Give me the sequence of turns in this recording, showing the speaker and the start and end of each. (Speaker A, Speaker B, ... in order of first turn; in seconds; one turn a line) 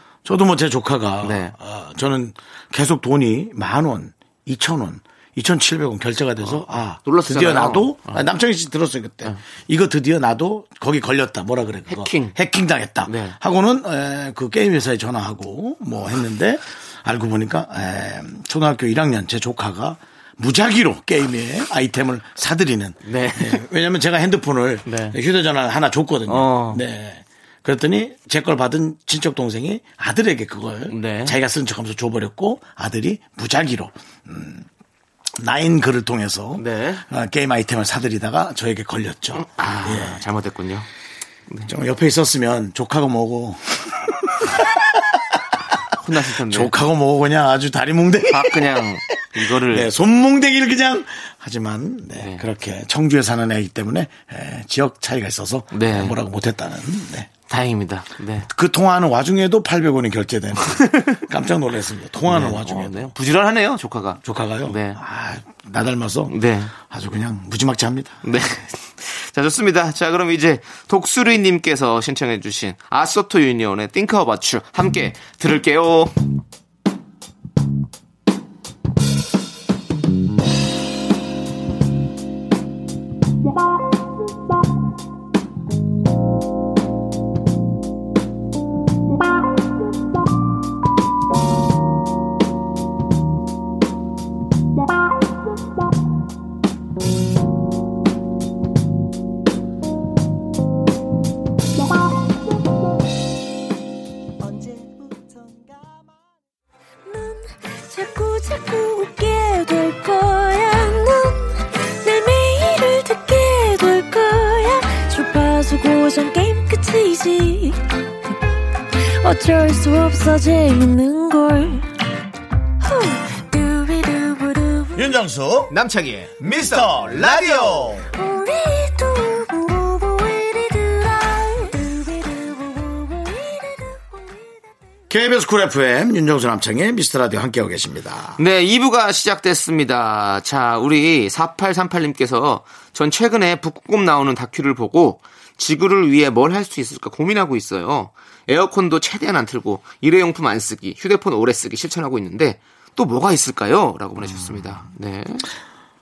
Speaker A: 0.2-34.7
Speaker B: 1.2-1.6
Speaker B: 6.4-8.2
Speaker B: 11.9-12.3
Speaker B: 13.1-13.4
Speaker B: 23.1-23.6
Speaker B: 24.9-25.2
Speaker B: 26.3-26.8
Speaker B: 30.9-31.4
Speaker A: 35.4-40.2
Speaker B: 36.6-37.0
Speaker B: 39.4-40.9
Speaker A: 41.7-44.8
Speaker B: 46.0-46.7
Speaker A: 46.3-57.3
Speaker B: 48.3-49.9
Speaker B: 52.2-52.4
Speaker B: 55.7-56.2
Speaker B: 57.5-58.5
Speaker A: 58.5-63.1
Speaker B: 62.3-65.0
Speaker A: 64.2-68.2
Speaker B: 66.3-66.7
Speaker B: 68.2-76.2
Speaker C: 107.1-117.8
Speaker C: 119.0-121.9
Speaker C: 122.8-125.1
Speaker A: 125.0-125.7
Speaker B: 125.7-127.9
Speaker A: 126.7-127.4
Speaker C: 128.1-134.4
Speaker A: 135.1-138.4
Speaker B: 138.4-155.5
Speaker A: 154.2-154.6